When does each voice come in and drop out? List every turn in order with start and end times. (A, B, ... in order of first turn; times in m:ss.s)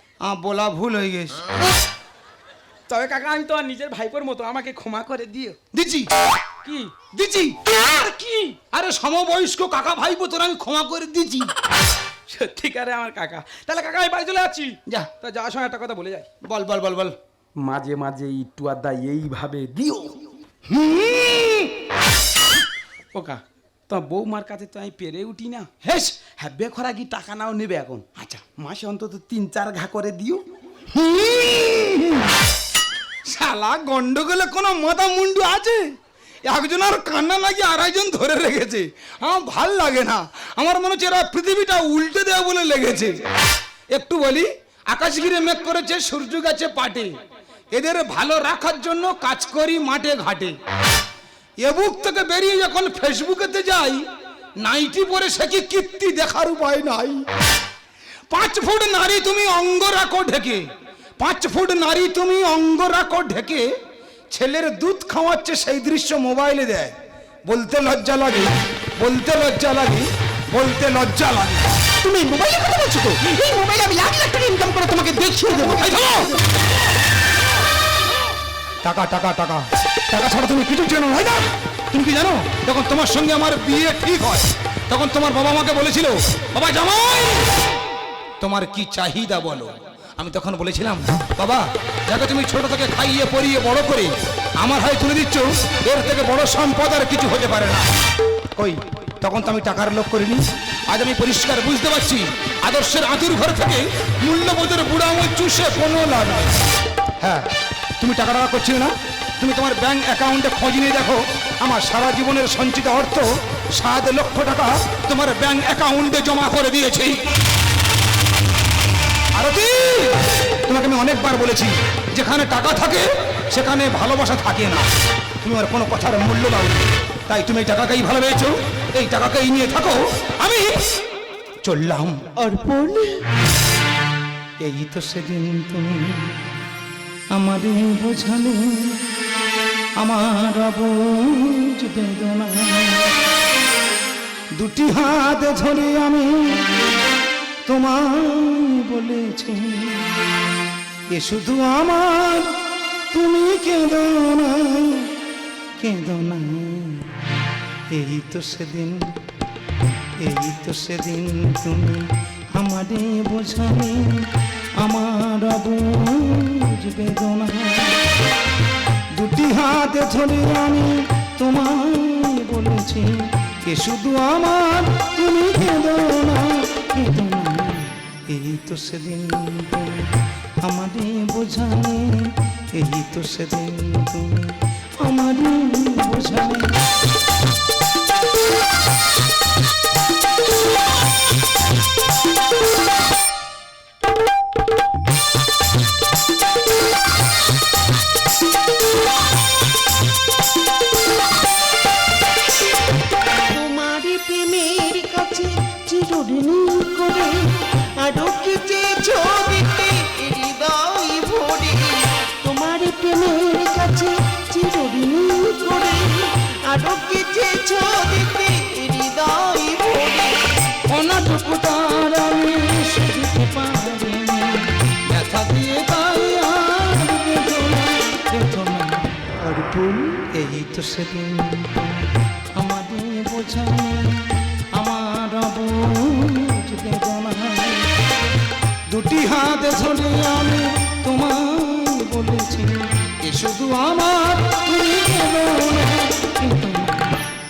0:00.2-0:01.4 A
0:02.9-0:05.6 B
0:05.7-0:06.1 A
0:06.6-0:08.6 B
0:07.1-0:07.6 A
0:08.7-0:11.5 A
0:12.3-0:16.3 B
0:16.4-0:17.2 A
0:17.6-0:20.2 B
0:20.7-0:21.7 A
0:23.1-0:30.4 B
0:25.8-0:26.2 A
0:30.9-0:32.3 A
0:33.3-0:35.8 A
0:36.4-0:43.3 A
0:43.9-0:47.1 A
0:47.7-0:50.6 A
0:51.6-0:54.0 A
0:54.6-0:57.2 A
0:58.3-1:00.6 A
1:01.2-1:03.7 A
1:04.3-1:06.9 A
1:07.4-1:11.7 A
1:12.0-1:15.8 C
1:15.6-1:16.4 A
1:18.8-1:27.5 A
1:28.4-1:37.8 A
1:38.6-1:46.6 A
1:47.2-1:47.5 A
1:48.0-1:57.2 A
1:59.3-2:04.9 A
2:05.4-2:10.7 A
2:11.6-2:12.3 A
2:12.4-2:13.2 C
2:14.6-2:16.4 A
2:17.3-2:19.0 A
2:20.0-2:23.1 A
2:24.6-2:26.6 A
2:27.7-2:30.0 A
2:31.1-2:32.5 A
2:33.1-2:35.1 A
2:35.8-2:37.1 A
2:37.9-2:39.1 A
2:40.2-2:44.2 A
2:44.8-2:48.0 A
2:49.1-3:00.1 A
3:00.6-3:06.8 A
3:23.5-3:40.5 C
3:40.9-3:54.2 A
3:54.8-3:57.8 A
3:58.9-4:07.1 A